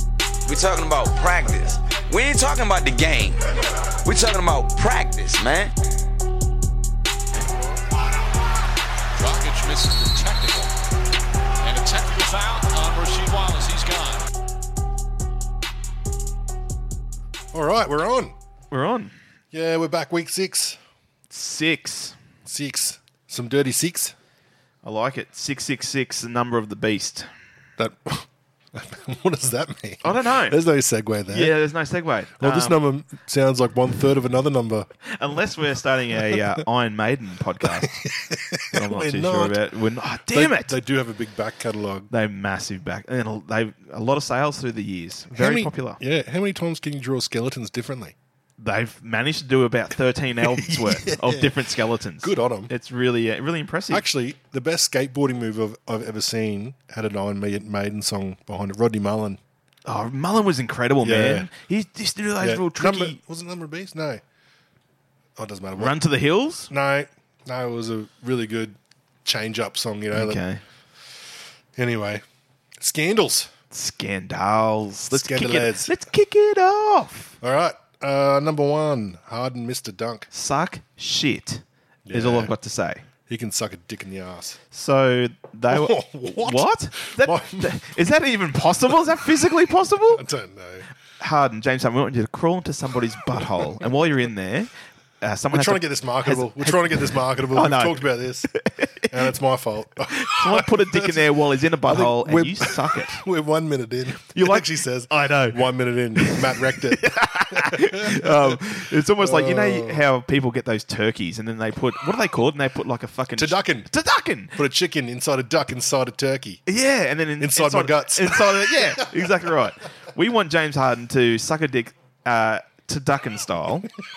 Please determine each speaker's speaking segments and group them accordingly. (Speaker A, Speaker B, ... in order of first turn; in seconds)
Speaker A: 0.5-3.5, 4.0-5.7
Speaker B: 9.2-10.7, 11.6-14.3
Speaker C: 17.5-18.3, 19.5-20.8, 22.4-24.1, 27.8-31.6, 32.4-34.9, 36.2-36.6, 37.6-39.6, 40.3-42.1, 45.3-48.1, 50.4-51.6, 52.2-52.7, 53.9-59.4, 61.0-61.5, 62.4-64.2, 65.4-65.9, 66.7-70.4, 71.8-72.2, 72.8-73.5, 75.1-75.9, 77.4-80.3, 82.1-82.5, 83.3-84.6, 85.7-87.8, 90.1-90.9, 95.5-98.5, 99.1-101.2, 101.8-110.0, 113.4-113.9, 114.5-116.6, 117.4-119.5
Speaker D: 18.7-19.1, 21.3-22.2, 24.8-27.3, 30.0-30.6, 31.3-32.8, 35.1-38.0, 38.7-40.7, 42.1-46.0, 48.6-54.0, 59.8-63.2, 65.8-66.7, 70.1-70.6, 73.7-77.4, 80.3-83.0, 84.7-90.2, 91.2-94.7, 95.2-99.3, 100.1-103.2, 104.2-105.6, 106.2-114.6, 116.7-123.9